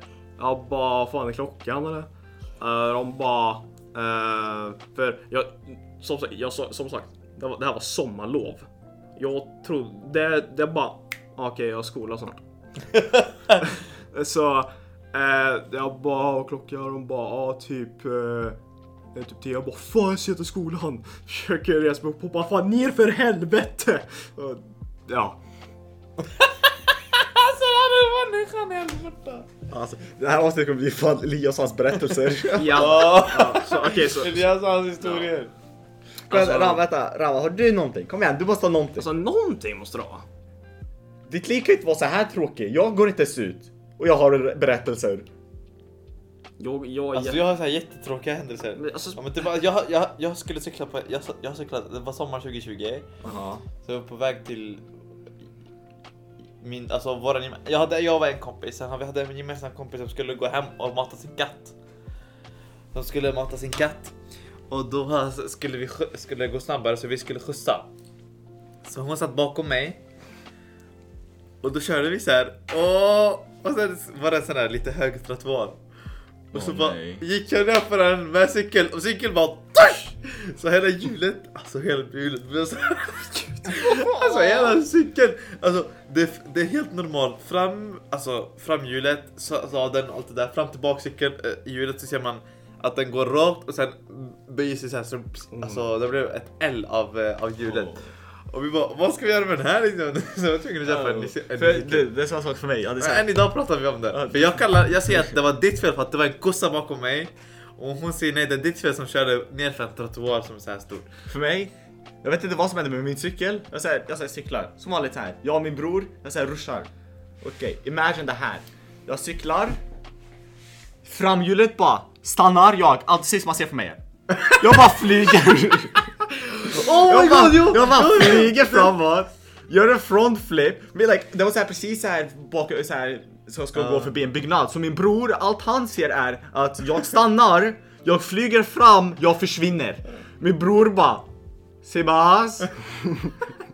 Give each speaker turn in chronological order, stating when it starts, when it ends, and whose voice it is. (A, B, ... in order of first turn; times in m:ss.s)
0:00.4-0:12.4 A
0:13.6-0:18.6 A
0:19.1-0:25.4 A
0:27.1-0:29.5 B
0:29.7-0:33.2 C
0:32.5-0:35.3 A
0:32.7-0:35.5 B
0:36.3-0:39.1 C
0:36.3-0:36.8 B
0:39.0-0:40.2 A
0:41.2-0:45.2 C
0:46.6-0:47.4 A
0:47.1-0:53.1 B
0:48.8-0:49.4 A
0:53.2-0:53.6 C
0:53.8-0:54.8 B
0:56.6-1:01.7 B
1:02.9-1:04.1 B
1:04.7-1:07.9 B
1:08.8-1:10.0 B
1:11.6-1:15.8 B
1:16.5-1:42.1 B
1:16.5-1:17.2 C
1:23.8-1:24.7 C
1:35.5-1:35.8 A
1:40.8-1:43.4 C
1:43.0-1:51.1 B
1:44.1-1:44.4 C
1:51.3-1:51.7 C
1:52.2-1:56.9 C
1:57.4-1:59.8 C
2:01.0-2:21.3 C
2:06.6-2:08.9 B
2:13.7-2:14.1 B
2:21.8-2:22.7 C